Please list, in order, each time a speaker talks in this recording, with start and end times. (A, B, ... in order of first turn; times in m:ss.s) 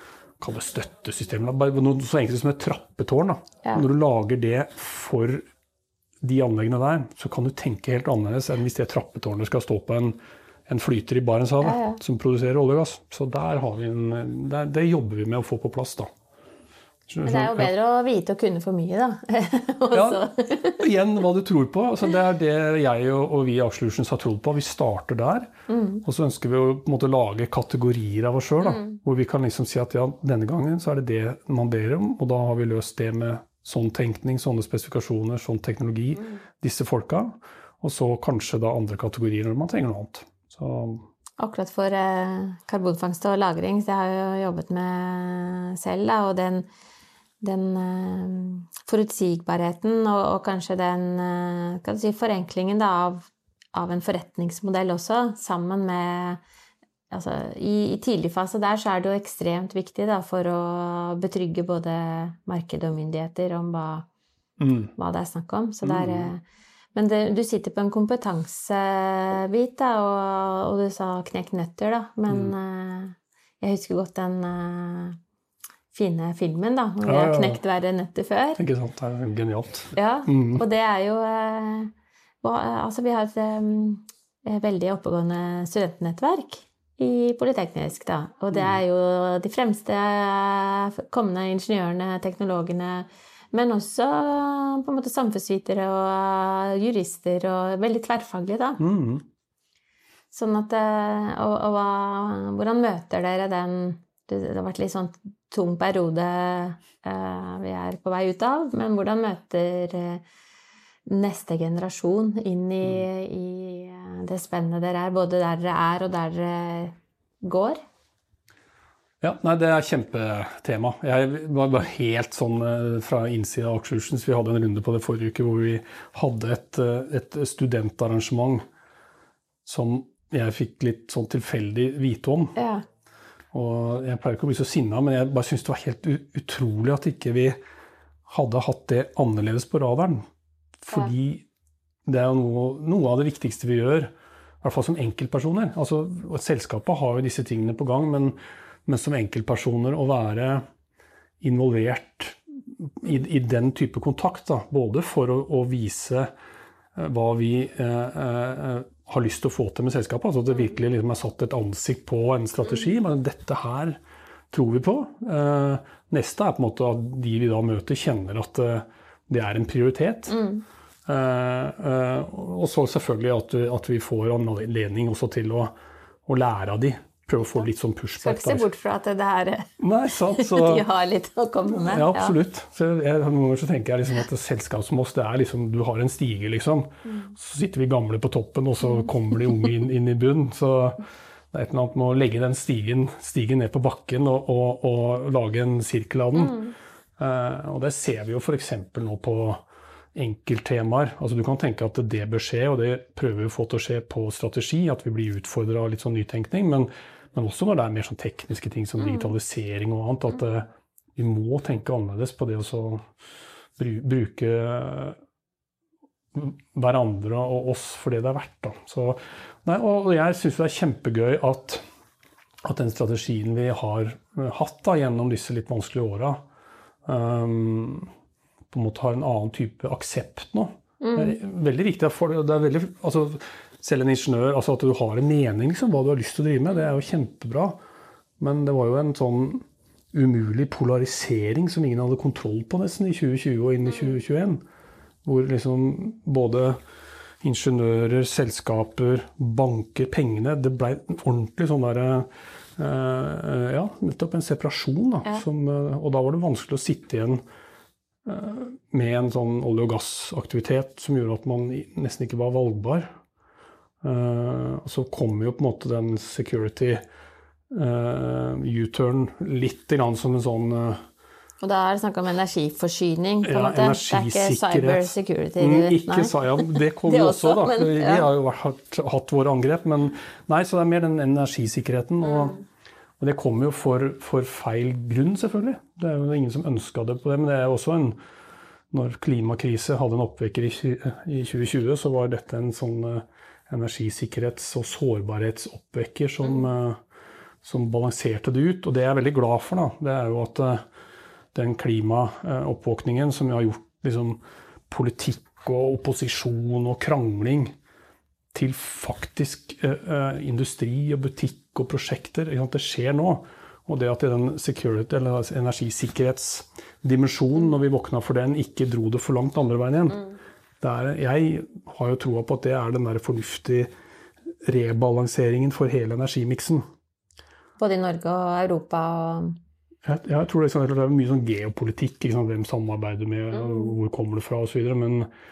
0:00.4-0:05.4 A
0:06.2-0:16.1 A
0:11.6-0:12.0 B
0:17.1-0:17.7 A
0:17.2-0:20.9 B
0:19.9-0:20.2 A
0:20.8-0:41.1 A
0:25.7-0:26.0 B
0:41.4-0:46.7 B
0:47.4-0:56.4 B
0:57.1-1:04.1 B
1:04.6-1:04.9 A
1:05.0-1:06.4 B
1:05.8-1:06.3 A
1:07.0-1:15.2 B
1:12.3-1:12.5 A
1:15.9-1:18.6 B
1:17.0-1:17.6 A
1:18.6-1:20.6 A
1:19.9-1:38.8 B
1:38.8-1:39.2 A
1:40.3-1:50.2 B
1:51.1-1:57.8 B
1:59.2-2:08.6 A
2:09.6-2:12.6 A
2:12.6-2:12.8 B
2:13.5-2:17.6 A
2:18.3-2:20.2 A
2:20.8-2:21.4 A
2:22.1-2:30.6 A
2:31.4-2:36.3 A
2:37.0-2:44.0 A
2:44.5-2:50.4 A
2:50.3-2:50.6 B
2:51.1-2:55.7 A
2:56.3-2:58.7 A
2:58.2-3:02.4 B
2:59.8-3:00.8 A
3:01.7-3:16.6 A
3:16.4-3:16.7 B
3:17.2-3:19.6 A
3:20.2-3:33.0 A
3:33.8-3:35.2 A
3:36.3-3:41.8 A
3:42.6-3:46.4 A
3:47.1-3:48.1 A
3:48.7-3:57.8 A
3:51.0-3:51.4 B
3:58.4-4:04.6 A
4:05.2-4:06.8 A
4:07.4-4:17.4 A
4:18.2-4:23.1 A
4:24.0-4:27.0 A
4:27.7-4:31.0 A
4:31.6-4:38.3 B
4:33.4-4:42.6 A
4:43.2-4:48.2 A
4:48.9-4:57.0 A
4:57.6-5:00.8 A
5:01.5-5:07.8 A
5:08.5-5:20.3 A
5:20.8-5:23.9 A
5:24.6-5:26.8 A
5:27.8-5:29.6 B
5:30.0-5:35.3 A